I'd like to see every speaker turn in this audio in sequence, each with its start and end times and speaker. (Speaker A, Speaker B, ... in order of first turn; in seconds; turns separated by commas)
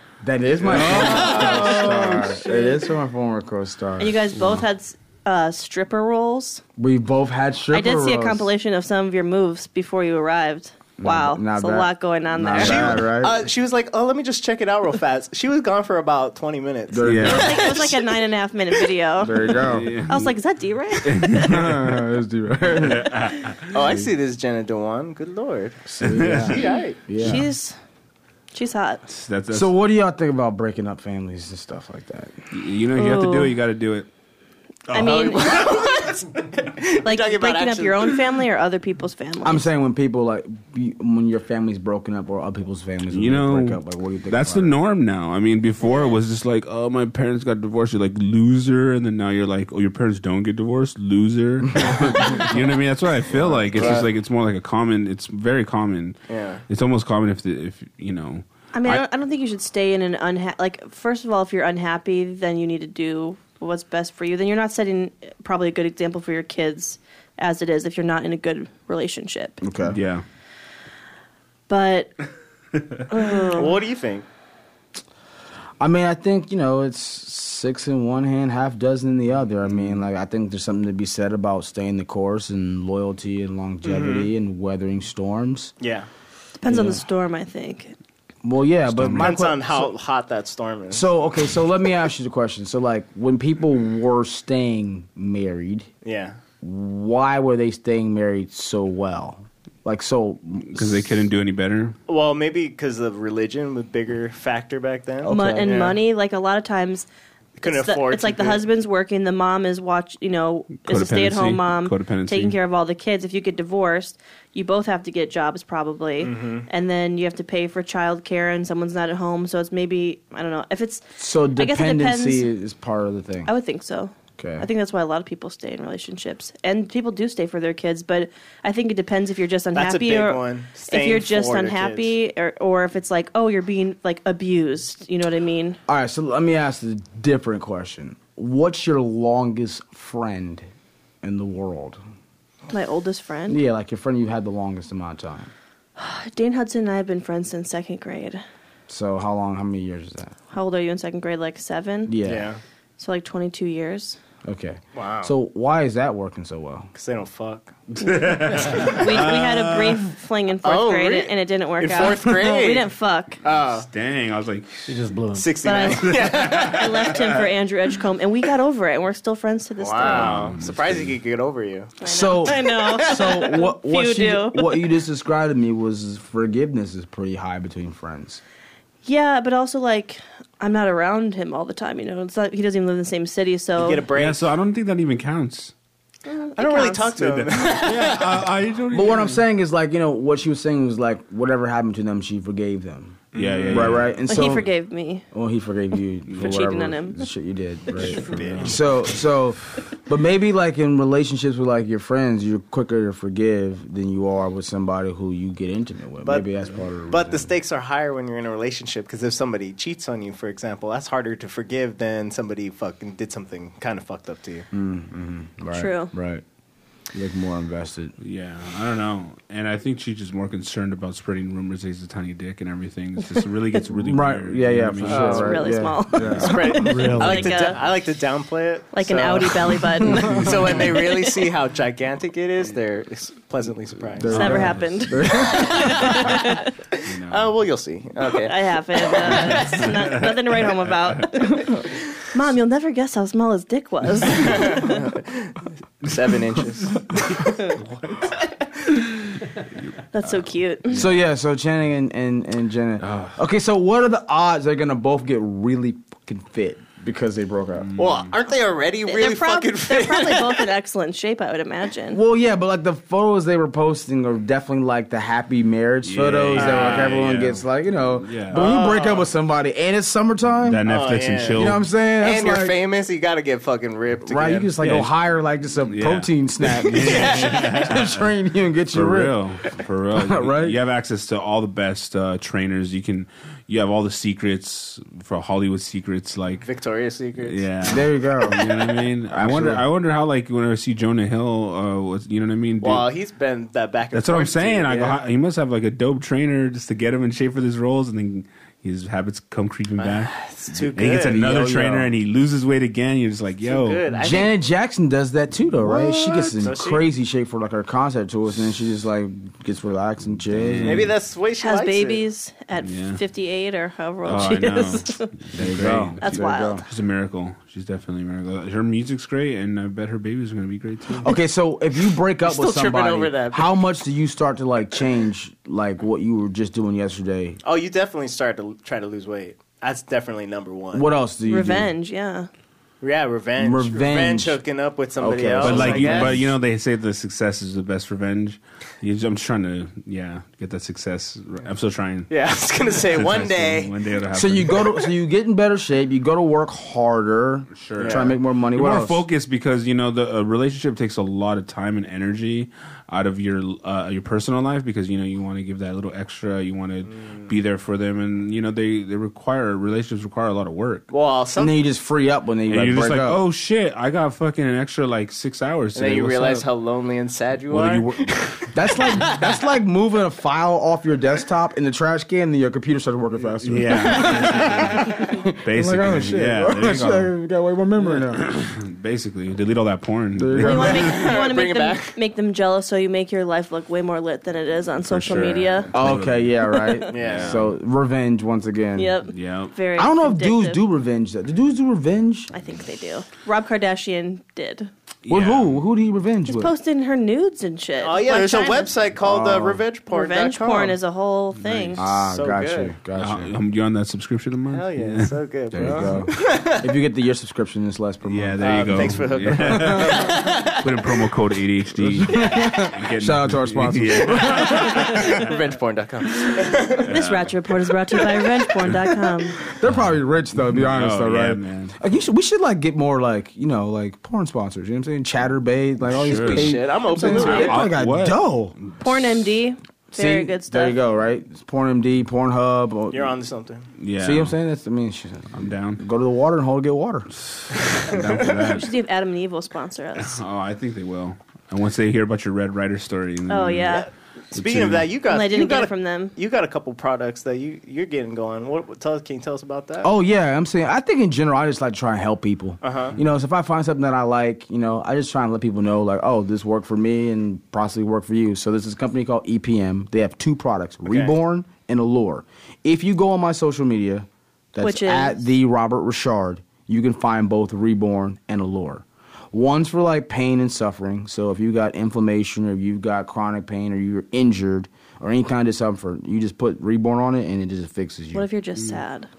Speaker A: 0.2-4.3, Speaker B: 0.6-2.3, Speaker C: 0.7-2.6, Speaker D: 4.0-6.6, Speaker A: 6.8-8.5, Speaker D: 7.7-13.0, Speaker A: 11.0-13.4, Speaker C: 12.5-18.0, Speaker A: 16.9-17.8, Speaker B: 17.0-17.6, Speaker D: 17.2-19.5, Speaker A: 19.2-20.0, Speaker B: 19.6-20.3, Speaker D: 20.1-21.5, Speaker B: 21.0-22.0, Speaker A: 21.4-24.1, Speaker B: 22.7-23.7, Speaker C: 23.7-25.8, Speaker A: 25.9-27.4, Speaker B: 26.0-26.7, Speaker C: 26.5-27.0, Speaker D: 27.1-27.8, Speaker D: 28.5-29.0, Speaker B: 29.1-29.7, Speaker A: 29.5-32.4, Speaker B: 32.5-34.1, Speaker D: 33.0-33.5, Speaker D: 34.9-35.7, Speaker C: 34.9-38.2, Speaker D: 37.0-39.7, Speaker A: 39.4-44.7, Speaker B: 43.1-59.0, Speaker A: 51.8-52.5, Speaker A: 53.3-54.0, Speaker C: 53.7-54.0, Speaker C: 56.3-56.6, Speaker D: 58.7-69.6, Speaker A: 69.6-70.0, Speaker B: 69.8-70.2, Speaker D: 71.7-72.1, Speaker D: 73.1-73.8, Speaker C: 73.5-74.2, Speaker A: 75.8-85.7, Speaker C: 83.8-84.3, Speaker C: 85.8-86.1, Speaker D: 86.6-87.9, Speaker A: 86.6-87.0, Speaker A: 88.4-89.9, Speaker B: 88.8-89.3, Speaker C: 89.2-91.1, Speaker A: 90.9-95.9, Speaker C: 96.0-96.4, Speaker A: 96.6-101.2, Speaker B: 100.7-102.0, Speaker C: 102.1-106.0, Speaker A: 105.2-105.9, Speaker D: 105.3-107.1, Speaker C: 107.6-108.6, Speaker D: 107.6-122.5, Speaker B: 110.8-112.6, Speaker C: 116.2-116.7, Speaker A: 121.2-123.5, Speaker D: 123.5-135.8, Speaker A: 124.4-124.7, Speaker C: 129.7-132.1, Speaker A: 135.9-140.7, Speaker A: 141.2-142.0, Speaker D: 142.7-143.6, Speaker A: 143.5-145.5, Speaker D: 146.0-148.4, Speaker A: 148.9-150.3, Speaker D: 150.5-152.1, Speaker A: 152.1-152.5, Speaker C: 152.2-152.6, Speaker D: 153.0-154.2, Speaker A: 154.4-156.9, Speaker C: 154.9-155.3, Speaker C: 156.9-157.7, Speaker B: 158.0-160.1, Speaker D: 158.0-163.4, Speaker C: 160.6-162.9, Speaker C: 163.4-163.9, Speaker B: 163.8-165.0, Speaker A: 164.9-165.4, Speaker C: 165.3-167.1, Speaker D: 165.6-170.4, Speaker B: 165.9-167.3, Speaker C: 169.8-172.0, Speaker B: 170.0-171.2, Speaker D: 172.0-174.8, Speaker A: 172.0-178.4, Speaker C: 172.5-173.4, Speaker D: 179.0-184.0, Speaker C: 183.8-184.5, Speaker B: 184.1-185.7, Speaker D: 186.2-187.1, Speaker C: 186.6-188.5, Speaker B: 187.2-189.4, Speaker A: 188.9-194.7, Speaker C: 193.3-194.1, Speaker B: 193.3-194.1, Speaker D: 194.3-195.2, Speaker A: 195.3-207.5, Speaker D: 196.3-197.2, Speaker C: 198.0-198.8, Speaker B: 198.0-198.8, Speaker C: 206.2-206.5, Speaker C: 207.1-214.7, Speaker A: 214.7-216.4, Speaker D: 215.7-216.1, Speaker A: 217.1-218.1, Speaker B: 218.2-225.5, Speaker A: 223.9-227.2, Speaker C: 225.0-225.7, Speaker D: 225.2-227.8, Speaker B: 226.2-227.5, Speaker C: 226.4-234.6, Speaker D: 228.9-230.5, Speaker A: 234.2-236.2, Speaker B: 234.2-234.9, Speaker D: 234.3-236.7, Speaker B: 237.0-237.6, Speaker C: 237.3-239.8, Speaker D: 238.4-245.0, Speaker B: 239.3-240.8, Speaker C: 244.4-247.3, Speaker D: 250.1-251.0, Speaker B: 250.2-251.1, Speaker A: 250.9-257.9, Speaker B: 253.0-253.3, Speaker B: 257.8-258.3, Speaker C: 257.9-260.7, Speaker D: 259.1-262.2, Speaker A: 262.1-270.8, Speaker B: 266.0-268.8, Speaker C: 266.5-267.1, Speaker C: 268.5-269.3, Speaker B: 270.6-271.8, Speaker C: 270.9-274.8, Speaker A: 271.5-272.8, Speaker A: 274.2-279.4, Speaker B: 274.8-275.1, Speaker B: 275.9-278.3, Speaker C: 277.0-277.7, Speaker B: 278.9-286.7, Speaker A: 280.1-280.8, Speaker C: 286.6-287.6, Speaker B: 287.4-293.1, Speaker A: 287.8-289.8, Speaker C: 292.8-295.2, Speaker B: 294.1-304.1, Speaker C: 300.0-302.1, Speaker C: 303.6-304.6, Speaker A: 304.1-311.1, Speaker B: 306.0-306.7, Speaker C: 306.2-307.1, Speaker B: 310.6-311.1, Speaker C: 310.8-312.2, Speaker D: 311.6-315.3, Speaker B: 312.8-313.2, Speaker B: 314.2-321.3, Speaker A: 315.5-316.8, Speaker D: 316.2-316.8, Speaker A: 321.2-327.6, Speaker C: 322.4-323.8, Speaker C: 327.6-331.1, Speaker A: 330.9-331.9, Speaker D: 331.5-332.5, Speaker C: 333.0-336.4, Speaker A: 333.6-334.6, Speaker A: 335.2-336.5, Speaker B: 335.6-342.3, Speaker C: 342.3-343.9, Speaker B: 342.9-344.9, Speaker A: 344.3-349.2, Speaker B: 347.7-361.1, Speaker C: 348.0-348.3, Speaker C: 361.1-361.8, Speaker A: 361.6-363.4, Speaker B: 362.7-366.6, Speaker C: 365.9-368.3, Speaker B: 367.7-368.7, Speaker A: 368.7-378.4, Speaker C: 368.9-369.4, Speaker B: 373.6-377.3, Speaker C: 374.2-374.6, Speaker B: 378.0-381.4, Speaker A: 380.4-381.2, Speaker D: 380.6-385.9, Speaker C: 380.9-382.2, Speaker B: 385.0-386.5, Speaker A: 385.9-389.2, Speaker D: 386.7-387.0, Speaker C: 387.1-387.6, Speaker B: 387.2-387.6, Speaker D: 388.9-390.8, Speaker B: 389.3-389.7, Speaker A: 389.9-392.5, Speaker D: 392.5-394.9, Speaker B: 395.2-395.8, Speaker A: 395.3-396.7, Speaker D: 396.5-398.9, Speaker C: 398.0-401.0, Speaker A: 399.2-399.8, Speaker D: 400.1-402.0, Speaker B: 401.6-402.1, Speaker A: 401.9-403.5, Speaker C: 402.3-402.9, Speaker B: 403.1-406.1, Speaker C: 404.7-406.9, Speaker A: 405.7-410.3, Speaker B: 408.2-415.3, Speaker C: 408.6-410.9, Speaker A: 411.9-415.3, Speaker C: 414.4-417.1, Speaker B: 416.9-417.5, Speaker D: 417.0-419.6, Speaker A: 419.7-428.7, Speaker B: 420.7-421.9, Speaker B: 426.1-429.4, Speaker C: 426.4-427.8, Speaker D: 427.2-427.6, Speaker D: 429.0-430.9, Speaker A: 430.1-433.3, Speaker C: 433.1-433.9, Speaker B: 434.0-434.6, Speaker A: 434.2-437.3, Speaker B: 435.5-436.0, Speaker B: 437.5-438.9, Speaker C: 437.7-438.6, Speaker D: 438.6-440.4, Speaker B: 440.2-445.1, Speaker D: 443.5-444.1, Speaker C: 443.9-450.1, Speaker D: 445.3-446.3, Speaker A: 450.0-478.4, Speaker C: 452.8-453.1, Speaker C: 461.1-461.3, Speaker D: 464.8-465.4, Speaker D: 478.3-479.3